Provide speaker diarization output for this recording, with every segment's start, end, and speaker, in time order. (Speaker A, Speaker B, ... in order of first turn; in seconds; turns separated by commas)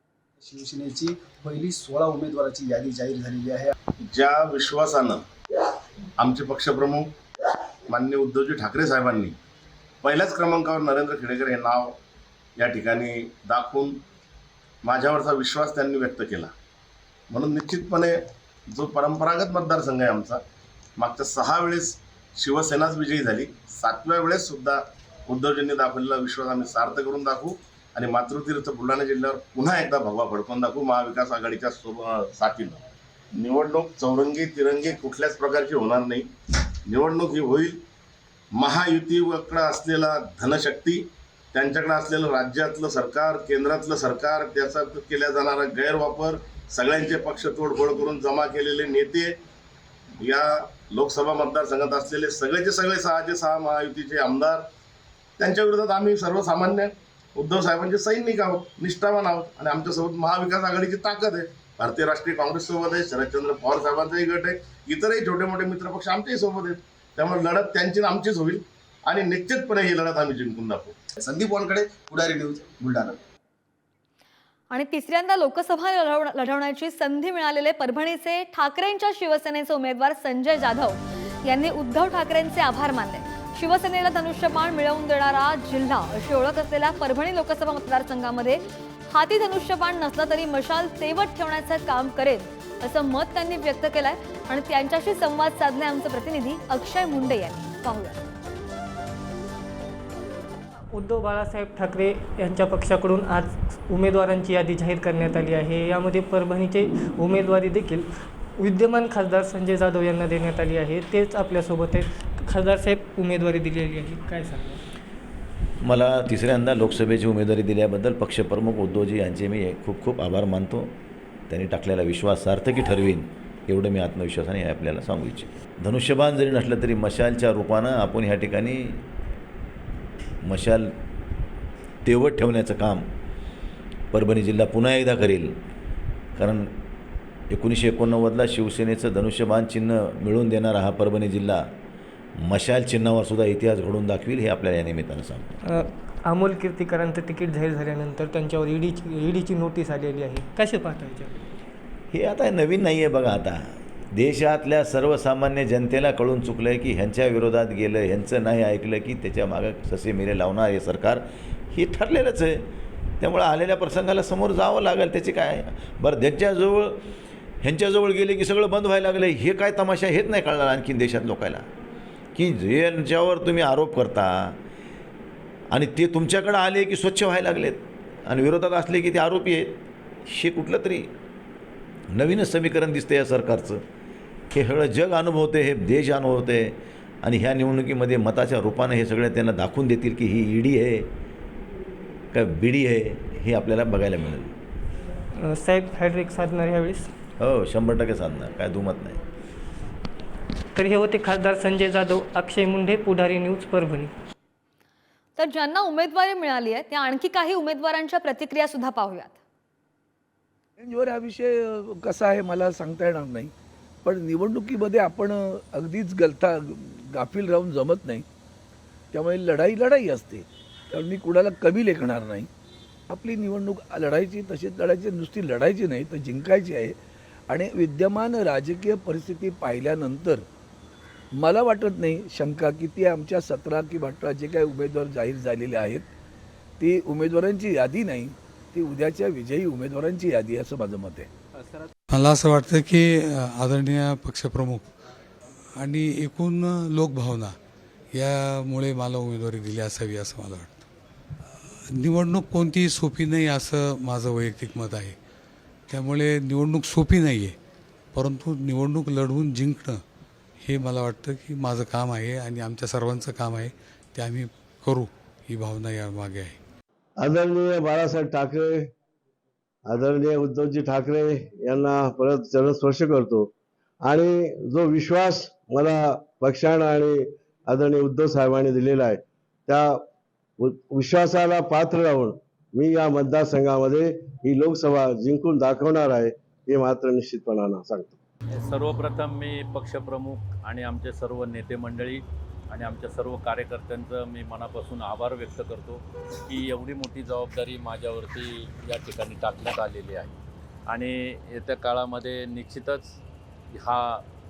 Speaker A: 0.4-3.7, Speaker B: 4.0-5.2, Speaker B: 6.2-7.1, Speaker B: 7.9-9.4, Speaker B: 10.0-12.0, Speaker B: 12.6-14.0, Speaker B: 14.8-16.5, Speaker B: 17.3-20.4, Speaker B: 21.0-32.8, Speaker B: 33.4-36.3, Speaker B: 36.9-37.8, Speaker B: 38.5-49.4, Speaker B: 50.2-54.7, Speaker B: 55.4-71.0, Speaker A: 71.2-73.2, Speaker C: 74.7-98.2, Speaker D: 100.9-108.1, Speaker D: 108.6-114.8, Speaker E: 115.8-120.9, Speaker E: 121.5-129.0, Speaker E: 130.4-130.9, Speaker E: 132.1-133.1, Speaker E: 134.1-135.5, Speaker E: 136.4-136.7, Speaker E: 137.5-141.6, Speaker E: 142.4-145.5, Speaker D: 145.7-151.4, Speaker E: 152.1-162.7, Speaker E: 163.2-167.0, Speaker E: 167.6-171.7, Speaker E: 172.4-174.6, Speaker E: 175.7-181.1, Speaker E: 182.1-183.8, Speaker E: 184.5-191.1, Speaker E: 192.3-194.5, Speaker D: 195.4-197.1, Speaker E: 197.4-199.2, Speaker D: 200.8-204.1, Speaker C: 205.4-209.4, Speaker F: 210.8-213.5, Speaker F: 214.1-218.2, Speaker F: 219.1-222.5, Speaker F: 223.1-227.0, Speaker F: 227.5-230.4, Speaker F: 231.4-236.1, Speaker F: 236.8-241.3, Speaker G: 242.1-244.8, Speaker G: 245.8-247.6, Speaker G: 248.1-250.8, Speaker G: 251.9-255.2, Speaker G: 255.9-257.6, Speaker G: 258.1-260.0, Speaker G: 260.6-266.6, Speaker H: 267.2-268.9, Speaker H: 269.9-273.5, Speaker H: 274.0-280.0, Speaker H: 280.6-288.2, Speaker I: 288.5-300.3, Speaker I: 300.9-303.1, Speaker I: 303.7-304.2